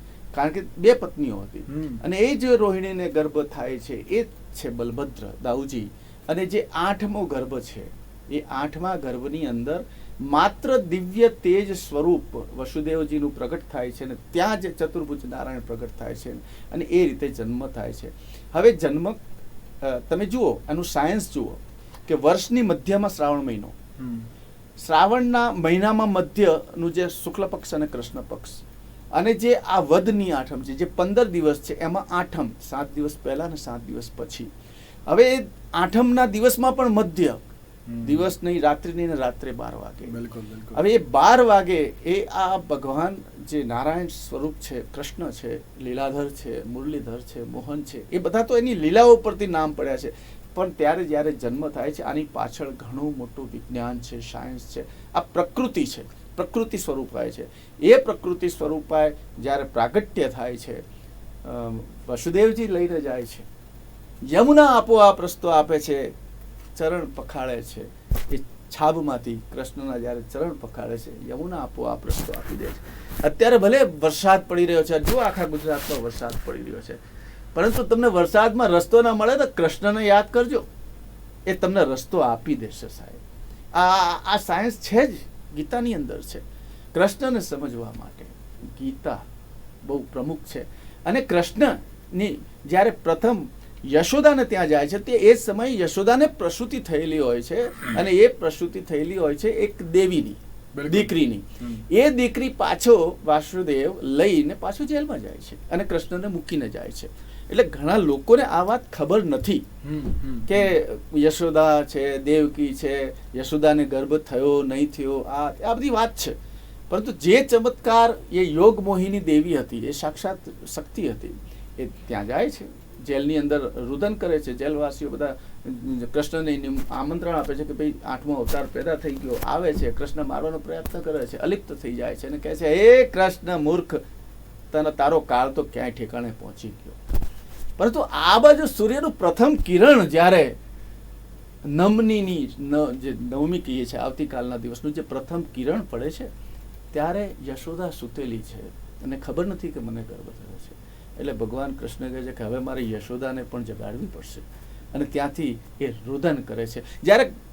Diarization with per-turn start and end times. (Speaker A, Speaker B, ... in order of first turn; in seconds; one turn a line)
Speaker A: 0.3-19.2
Speaker B: 1.7-2.0
Speaker A: 19.8-23.7
Speaker B: 24.0-24.3
Speaker A: 24.8-28.6
Speaker A: 29.1-34.5
Speaker A: 35.1-37.4
Speaker B: 37.9-38.3
Speaker A: 38.0-40.1
Speaker B: 40.1-40.8
Speaker A: 40.7-60.8
Speaker A: 61.4-63.5
Speaker A: 64.3-66.1
Speaker A: 66.8-77.0
Speaker A: 77.5-80.7
Speaker A: 81.5-83.2
Speaker A: 83.7-86.4
Speaker A: 86.9-89.2
Speaker A: 89.8-109.6
Speaker B: 100.7-101.8
Speaker B: 109.8-110.7
Speaker A: 110.5-116.3
Speaker A: 116.9-134.0
Speaker A: 134.7-137.0
Speaker A: 137.8-140.5
Speaker A: 141.7-146.3
Speaker A: 146.9-157.3